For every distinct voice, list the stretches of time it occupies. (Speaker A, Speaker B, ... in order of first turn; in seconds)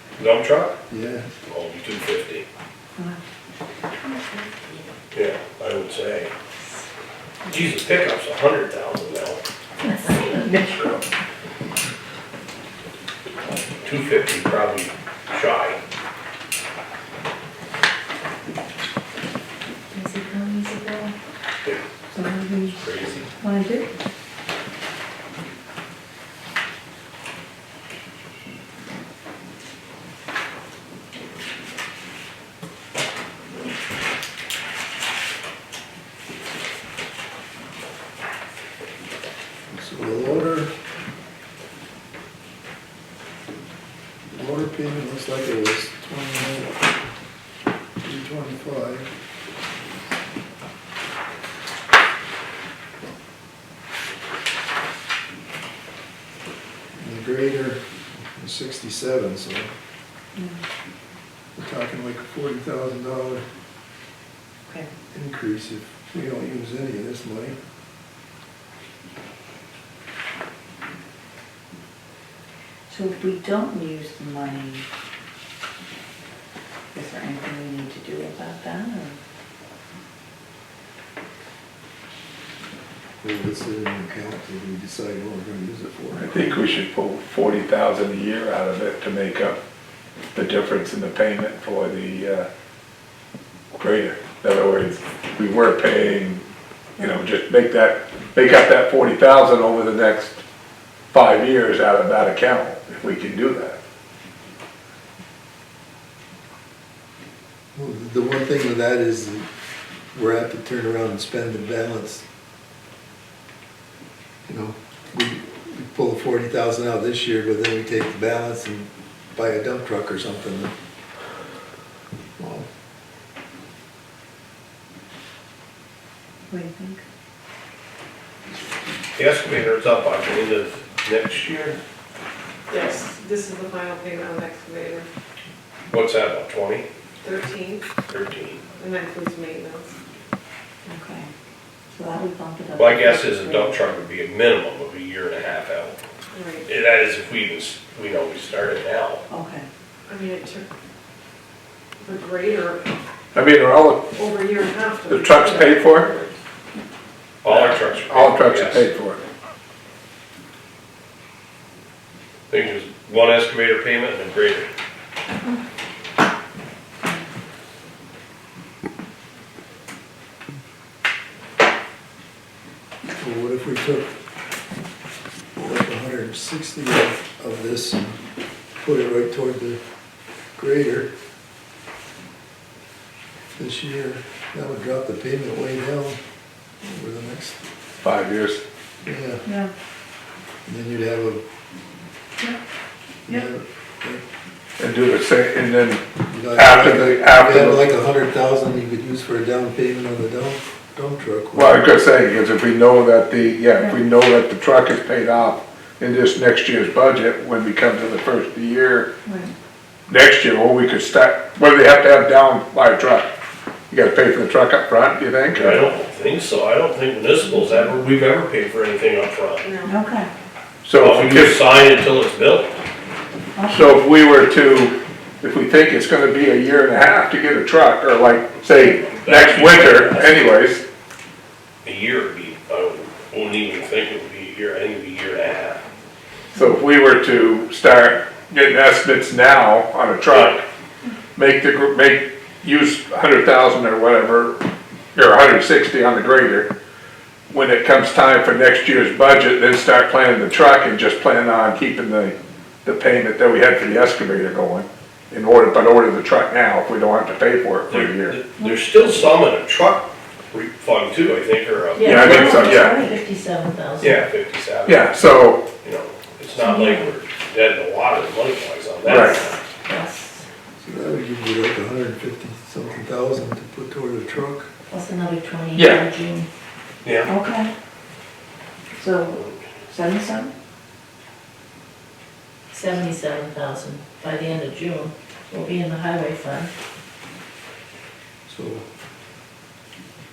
Speaker A: 0.1-0.8, 1.4-2.4, 5.1-6.3, 7.5-9.4, 13.8-15.8, 22.7-23.3, 129.2-131.8, 135.9-136.8, 138.1-138.7, 142.8-146.0, 146.6-149.2, 157.4-158.9, 162.5-164.7, 215.5-219.7, 221.0-222.8, 229.0-230.5, 231.8-235.8, 240.3-240.6, 257.9-262.6, 264.0-269.6, 277.0-277.3
Speaker B: 0.9-1.3, 39.7-40.7, 44.3-46.8, 48.0-49.1, 57.0-57.8, 58.3-59.7, 61.5-63.4, 65.1-67.6, 83.2-86.4, 107.7-109.5, 110.1-112.2, 114.5-120.7, 122.4-122.7, 173.2-174.1, 175.6-178.2, 178.8-179.8, 180.6-181.1, 183.6-186.2, 186.8-187.6, 189.0-189.4, 190.7-191.4, 193.3-194.2, 196.3-201.8, 270.8-274.7, 288.5-288.9
Speaker C: 4.0-4.8, 9.8-10.9, 19.9-21.1, 262.0-264.2, 266.6-267.1, 269.0-270.4, 274.9-276.5, 282.7-286.7
Speaker D: 10.1-11.0, 22.1-22.9, 23.4-23.9, 60.3-60.6, 72.9-74.8, 76.9-79.2, 126.5-127.0, 140.8-141.3, 141.9-143.9, 149.3-149.7, 189.4-189.7, 203.8-204.0, 209.2-209.5, 219.8-220.3, 223.5-224.0, 258.6-259.0, 262.0-263.2, 277.2-277.7, 279.0-280.5
Speaker E: 86.2-89.6, 90.3-92.5, 93.7-96.4, 97.0-100.4, 101.1-103.8, 153.3-154.1, 155.1-156.1, 158.0-159.2, 188.0-188.6, 194.8-197.9, 201.5-209.1, 210.1-213.3, 213.9-215.9, 220.8-221.6, 223.7-230.8, 236.5-240.6, 241.3-244.6, 245.1-246.7, 247.5-258.4, 262.0-263.0, 264.9-265.7, 269.1-269.4, 275.7-276.0
Speaker F: 132.7-135.1, 137.2-137.9, 138.8-139.9, 146.3-146.6, 150.1-150.7, 152.0-152.8, 154.1-156.4, 219.6-219.9